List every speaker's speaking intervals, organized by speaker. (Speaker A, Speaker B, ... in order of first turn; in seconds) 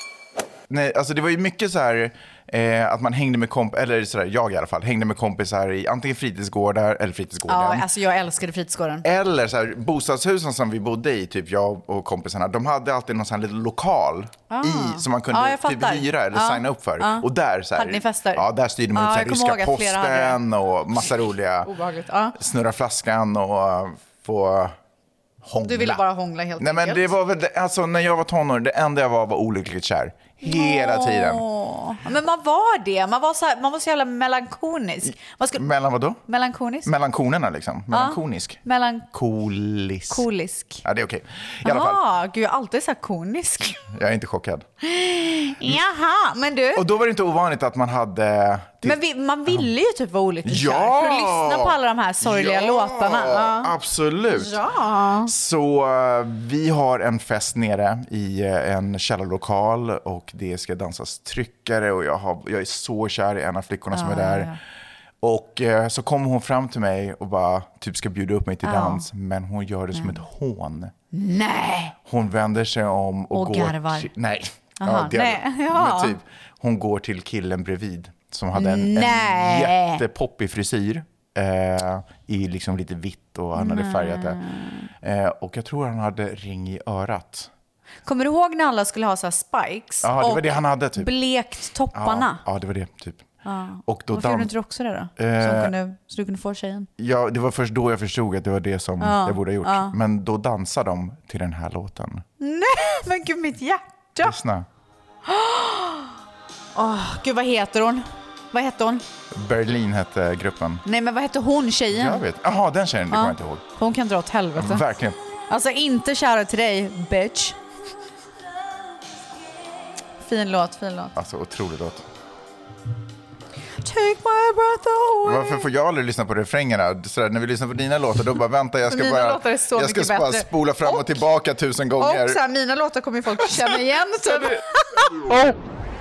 Speaker A: 0.7-7.8, 9.0-21.7, 22.4-24.7, 25.4-26.0, 26.6-31.4, 35.6-36.2, 36.8-38.6, 39.1-40.2, 40.8-42.0, 43.9-44.6, 46.7-49.0, 50.4-54.6, 55.2-64.5, 65.2-70.9, 72.0-84.4, 85.0-87.5, 90.0-91.1, 91.9-93.3, 93.8-94.5, 95.2-95.7, 97.0-102.2, 104.2-104.7, 109.3-110.8, 111.9-113.6, 114.5-115.2, 121.1-122.0, 125.2-132.4
Speaker B: 7.5-9.1, 14.5-20.4, 21.6-22.4, 25.6-27.1, 30.4-35.6, 36.3-36.9, 37.9-39.1, 40.1-40.8, 41.6-43.8, 44.8-46.9, 48.8-53.7, 54.3-55.3, 63.9-64.6, 68.6-69.1, 69.9-70.2, 71.1-72.0, 73.3-74.1, 74.8-76.2, 78.5-80.0, 83.5-84.9, 88.0-92.4, 93.4-96.9, 99.0-99.9, 102.4-104.4, 105.2-106.1, 106.7-109.0, 110.8-112.2, 113.1-114.8, 115.5-117.6, 120.2-121.1, 123.8-125.7, 128.8-131.2, 132.0-135.1